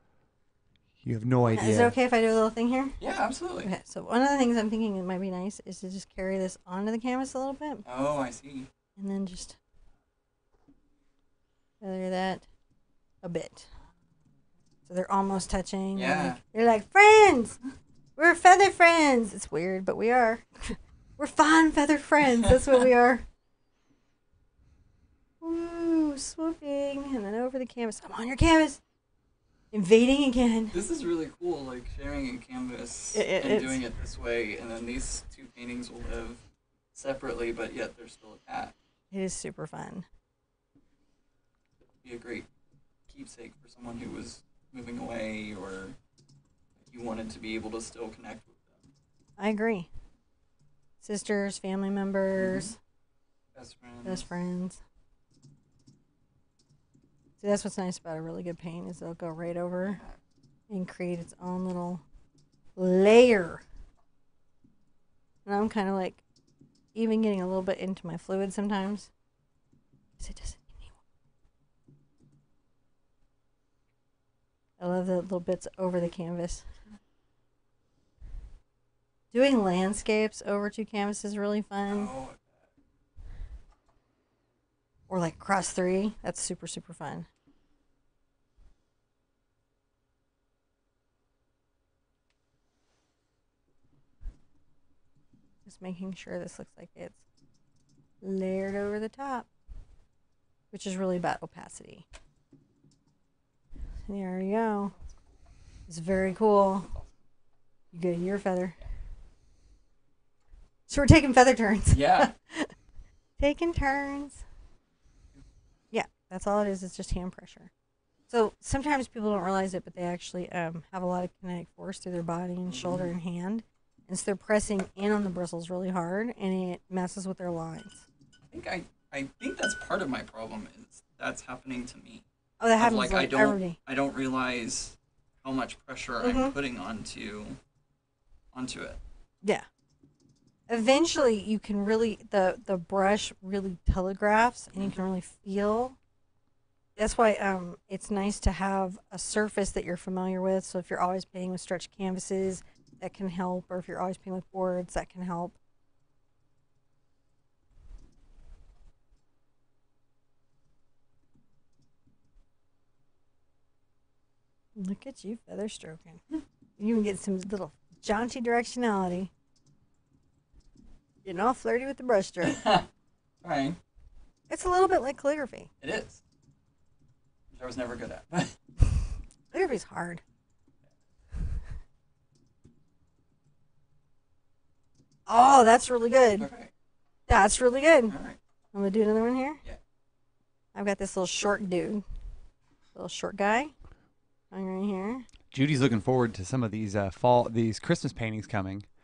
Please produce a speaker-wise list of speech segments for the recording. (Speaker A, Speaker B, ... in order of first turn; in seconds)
Speaker A: 1.0-1.9, 195.5-198.8
Speaker B: 1.6-3.0, 3.6-7.8, 9.0-9.6, 11.8-12.4, 13.2-13.7, 14.9-17.6, 18.2-23.2, 25.4-28.8, 29.7-30.7, 33.1-33.8, 39.1-40.0, 49.4-49.9, 51.0-52.8, 54.0-54.8, 57.4-60.0, 60.7-62.0, 62.8-63.6, 65.5-66.2, 66.9-69.1, 70.2-70.9, 74.8-76.7, 79.3-82.1, 85.1-87.3, 95.7-97.2, 98.2-99.5, 100.7-102.0, 104.1-104.9, 105.9-106.9, 107.9-108.8, 110.9-112.7, 113.4-114.4, 115.9-117.7, 118.3-128.0, 132.6-133.8, 136.2-136.5, 140.7-146.0, 147.0-155.6, 164.8-166.2, 166.8-169.3, 171.2-172.6, 174.5-175.7, 179.5-180.2, 185.3-186.5, 187.3-188.1, 188.7-189.6, 190.7-192.0, 192.9-193.7, 194.5-195.3
Speaker C: 3.0-3.7, 7.8-8.7, 15.9-16.4, 30.7-36.4, 36.9-38.7, 42.0-42.5, 43.1-46.0, 46.9-48.8, 52.4-52.7, 53.5-54.3, 59.8-60.1, 81.9-82.6, 111.9-112.3, 122.7-123.1, 128.5-132.2, 132.8-137.6, 138.5-139.0, 172.4-172.8, 173.4-173.8, 175.8-176.2, 177.5-178.5, 186.4-186.7, 188.1-188.4